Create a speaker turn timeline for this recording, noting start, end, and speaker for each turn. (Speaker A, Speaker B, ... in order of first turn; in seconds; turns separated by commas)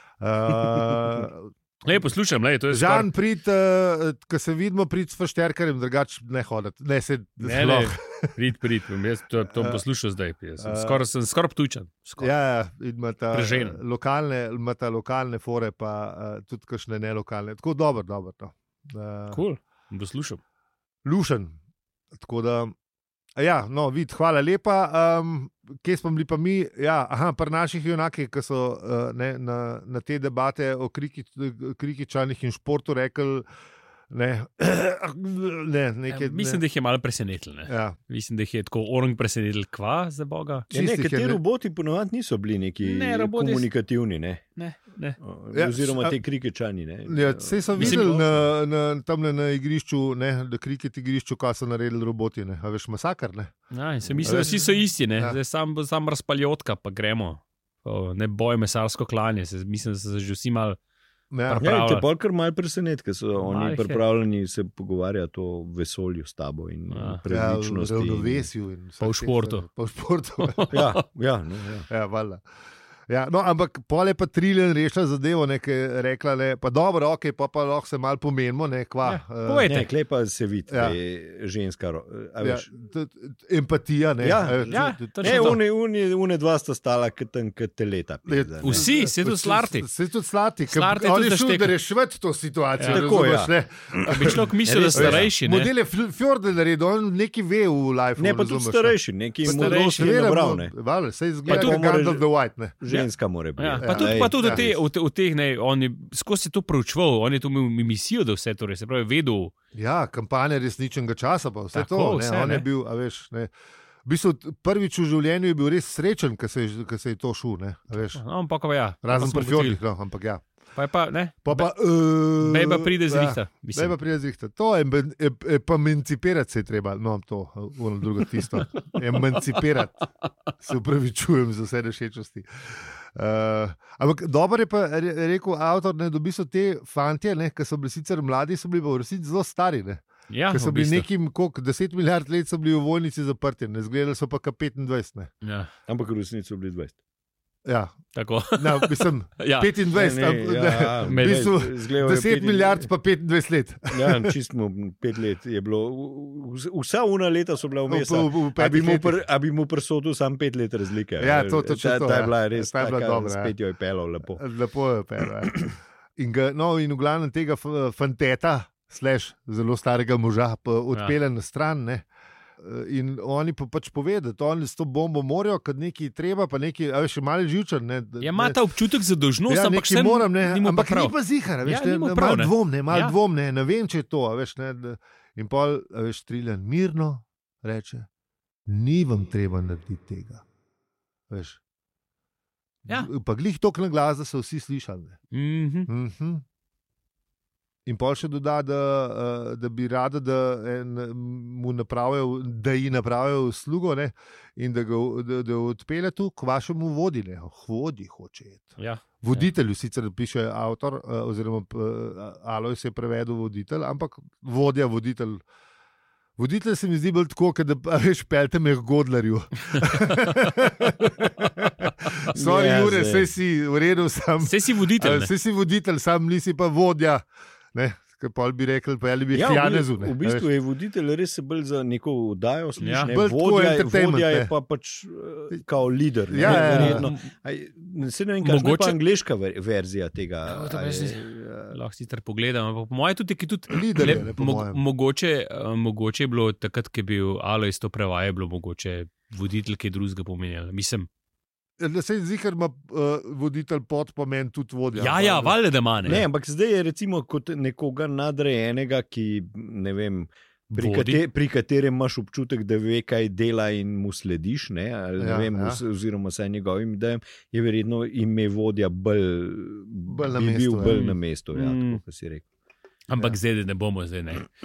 Speaker A: 0.2-2.0, Speaker B: 1.8-3.1, Speaker A: 2.7-8.3, Speaker B: 7.4-12.3, Speaker A: 9.5-9.8, Speaker A: 10.6-11.0, Speaker A: 12.2-19.4, Speaker B: 13.3-13.8, Speaker B: 19.3-20.4, Speaker A: 21.1-21.6, Speaker A: 22.2-22.7, Speaker A: 23.4-33.5, Speaker A: 34.1-36.6, Speaker B: 36.1-40.7, Speaker A: 37.7-38.0, Speaker A: 40.7-41.4, Speaker C: 40.7-44.5, Speaker B: 42.8-43.7, Speaker B: 44.6-45.2, Speaker C: 45.2-48.5, Speaker A: 45.5-46.2, Speaker A: 47.1-53.5, Speaker B: 47.8-48.3, Speaker B: 53.7-60.8, Speaker C: 54.1-54.5, Speaker A: 54.2-54.6, Speaker A: 61.3-61.6, Speaker B: 61.5-62.1, Speaker C: 61.6-68.5, Speaker B: 63.4-64.0, Speaker B: 66.9-67.2, Speaker A: 67.3-70.8, Speaker B: 69.0-69.7, Speaker B: 70.4-70.9, Speaker C: 70.7-71.9, Speaker A: 71.9-72.4, Speaker A: 73.1-79.7, Speaker B: 79.0-79.9, Speaker C: 79.6-82.7, Speaker A: 80.7-81.0, Speaker A: 82.4-85.6, Speaker C: 84.2-88.9, Speaker B: 84.7-85.6, Speaker A: 88.3-102.8, Speaker B: 88.6-89.9, Speaker B: 90.7-91.7, Speaker B: 92.8-93.1, Speaker C: 92.9-95.3, Speaker B: 94.1-95.7, Speaker C: 98.2-100.7, Speaker B: 99.5-100.3, Speaker B: 101.5-101.8, Speaker C: 101.5-102.3, Speaker C: 102.8-104.8, Speaker B: 102.9-109.5, Speaker A: 103.8-104.7, Speaker A: 109.8-113.5, Speaker B: 111.7-112.7, Speaker A: 114.1-118.2, Speaker B: 118.1-119.8, Speaker A: 119.0-120.5, Speaker B: 120.8-121.7, Speaker A: 121.5-130.1, Speaker B: 122.4-124.0, Speaker A: 130.6-145.3, Speaker B: 140.3-141.1, Speaker B: 145.4-145.7, Speaker C: 145.9-147.0, Speaker A: 147.7-148.0, Speaker B: 148.2-149.7, Speaker A: 148.6-154.3, Speaker C: 149.9-152.9, Speaker B: 151.1-151.5, Speaker C: 153.9-164.4, Speaker A: 157.9-159.2, Speaker A: 161.2-163.5, Speaker A: 164.3-172.1, Speaker A: 172.6-178.6, Speaker B: 178.2-183.2, Speaker A: 179.5-188.1, Speaker A: 188.7-190.4, Speaker A: 191.3-191.6, Speaker A: 192.9-195.2, Speaker B: 195.3-195.9, Speaker A: 195.9-196.4, Speaker A: 197.9-215.4, Speaker B: 208.8-209.4, Speaker A: 216.4-230.5, Speaker C: 222.3-223.3, Speaker B: 224.4-225.3, Speaker C: 229.3-241.8, Speaker B: 232.8-233.1, Speaker A: 233.1-234.5, Speaker A: 236.3-237.1, Speaker B: 236.4-237.2, Speaker B: 238.4-239.0, Speaker B: 240.5-251.1, Speaker A: 243.7-244.8, Speaker A: 251.8-255.6, Speaker B: 254.9-256.3, Speaker C: 256.0-272.4, Speaker B: 260.7-261.2, Speaker A: 265.2-265.8, Speaker A: 270.1-271.0, Speaker B: 270.9-272.0, Speaker B: 273.1-274.5